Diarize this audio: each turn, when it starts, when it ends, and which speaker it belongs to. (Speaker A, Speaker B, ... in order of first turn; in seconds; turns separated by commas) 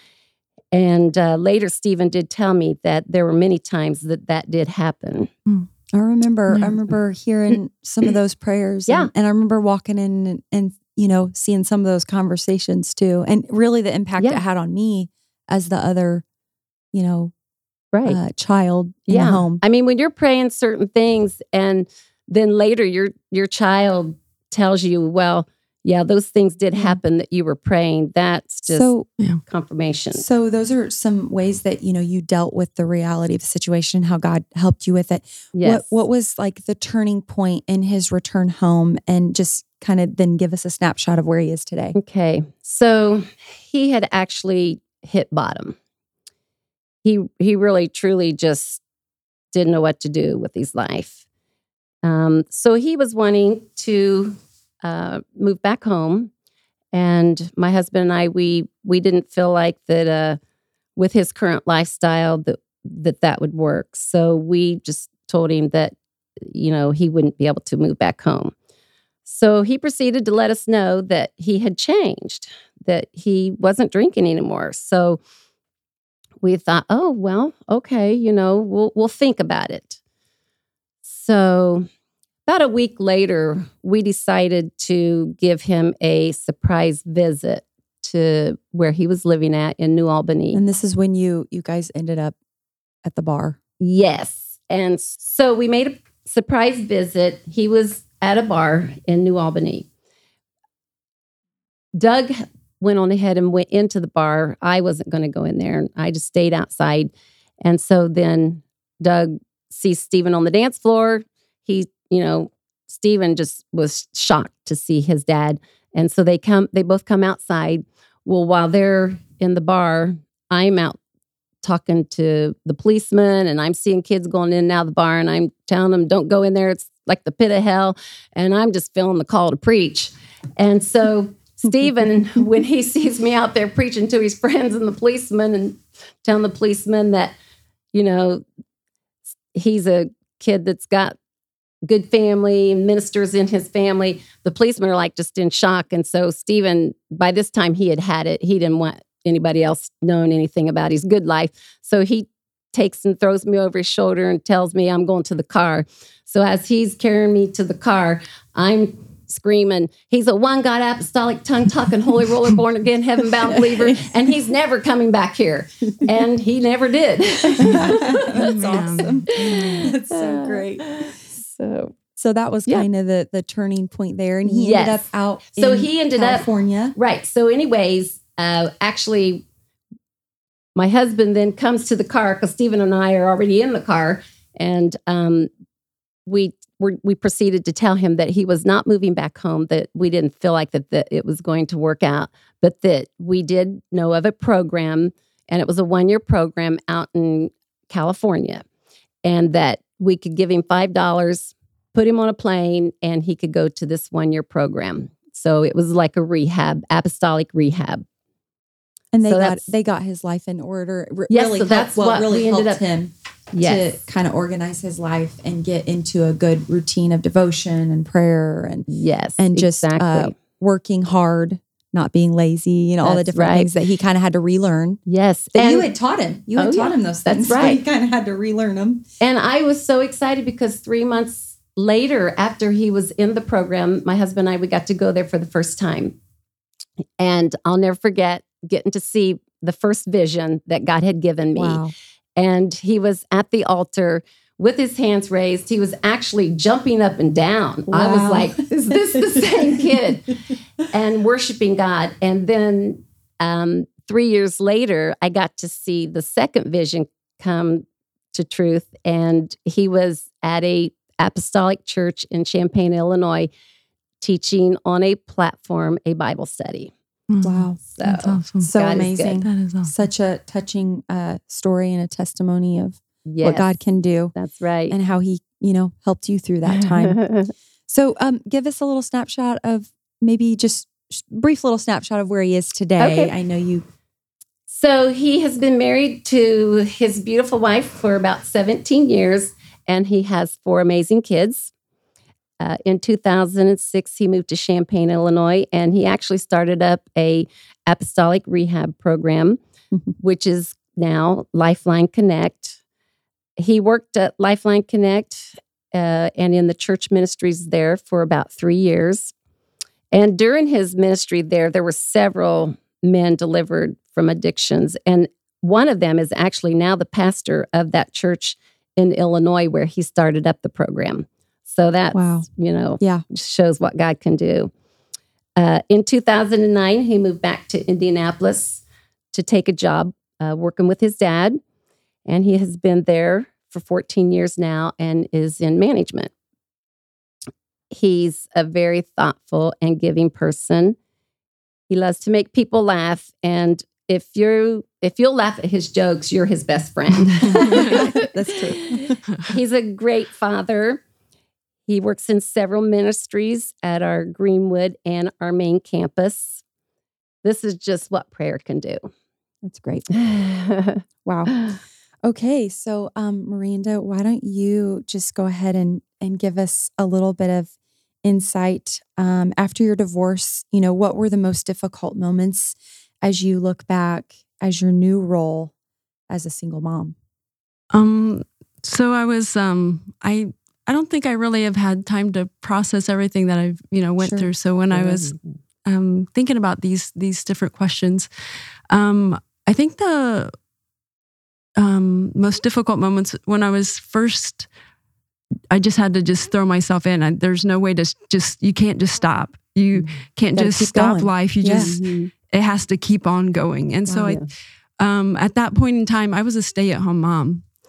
Speaker A: 0.7-5.3, Speaker B: 5.9-16.2, Speaker B: 16.9-17.3, Speaker A: 17.9-18.2, Speaker B: 18.1-19.6, Speaker A: 19.1-28.9, Speaker B: 28.7-29.1, Speaker A: 29.5-30.2, Speaker B: 30.1-42.0, Speaker A: 35.5-35.9, Speaker A: 42.0-45.8, Speaker A: 47.0-48.8, Speaker A: 49.5-51.2, Speaker A: 52.0-56.3, Speaker A: 56.9-60.4, Speaker A: 61.0-68.5, Speaker A: 69.2-75.2, Speaker A: 76.4-80.0, Speaker A: 81.0-81.9, Speaker A: 82.5-90.6, Speaker B: 90.5-92.4, Speaker B: 93.0-93.6, Speaker A: 93.8-99.9, Speaker A: 102.0-107.1, Speaker A: 107.6-121.0, Speaker A: 121.6-137.3, Speaker A: 137.9-138.4, Speaker A: 139.5-141.2, Speaker A: 141.9-168.5, Speaker B: 163.6-163.9, Speaker B: 167.5-171.1, Speaker C: 168.3-169.9, Speaker A: 169.4-172.0, Speaker B: 172.2-176.9, Speaker A: 174.4-179.4, Speaker A: 180.8-185.5, Speaker A: 186.3-198.6, Speaker A: 199.2-208.1, Speaker B: 209.1-218.9, Speaker A: 209.2-209.7, Speaker A: 211.3-212.8, Speaker A: 213.5-214.0, Speaker A: 218.9-220.4, Speaker B: 219.4-225.0, Speaker A: 223.0-223.7, Speaker A: 225.1-225.9, Speaker B: 225.6-229.1, Speaker A: 226.6-227.8, Speaker A: 229.2-236.2, Speaker A: 237.2-241.8, Speaker B: 241.6-241.9, Speaker A: 242.4-250.3, Speaker B: 247.9-249.9, Speaker A: 250.9-263.5, Speaker A: 264.2-266.9, Speaker C: 267.3-268.7, Speaker B: 267.4-267.8, Speaker A: 268.0-269.4, Speaker B: 268.6-274.4, Speaker C: 269.4-269.9, Speaker A: 273.3-273.8, Speaker A: 274.3-275.0, Speaker B: 274.9-277.2, Speaker A: 276.7-277.5, Speaker B: 277.9-283.8, Speaker A: 283.0-283.3, Speaker A: 284.7-291.7, Speaker A: 292.6-299.6, Speaker A: 300.2-302.8, Speaker A: 303.6-309.3, Speaker A: 310.1-324.7, Speaker B: 322.1-322.5, Speaker A: 325.6-331.6, Speaker A: 332.3-336.3, Speaker A: 337.9-341.0, Speaker A: 341.9-351.0, Speaker C: 347.5-348.0, Speaker B: 347.6-349.2, Speaker A: 351.9-356.6, Speaker A: 357.4-359.1, Speaker B: 359.6-360.1, Speaker A: 360.1-361.8, Speaker B: 361.2-361.6, Speaker B: 362.2-367.7, Speaker B: 368.2-375.7, Speaker B: 376.3-377.1, Speaker C: 377.9-388.3, Speaker B: 384.2-384.5, Speaker A: 384.9-385.6, Speaker C: 388.9-390.5, Speaker C: 391.8-394.7, Speaker C: 395.7-404.4, Speaker B: 400.6-401.9, Speaker A: 401.8-402.3, Speaker B: 404.1-404.4, Speaker A: 404.1-404.5, Speaker C: 405.0-407.7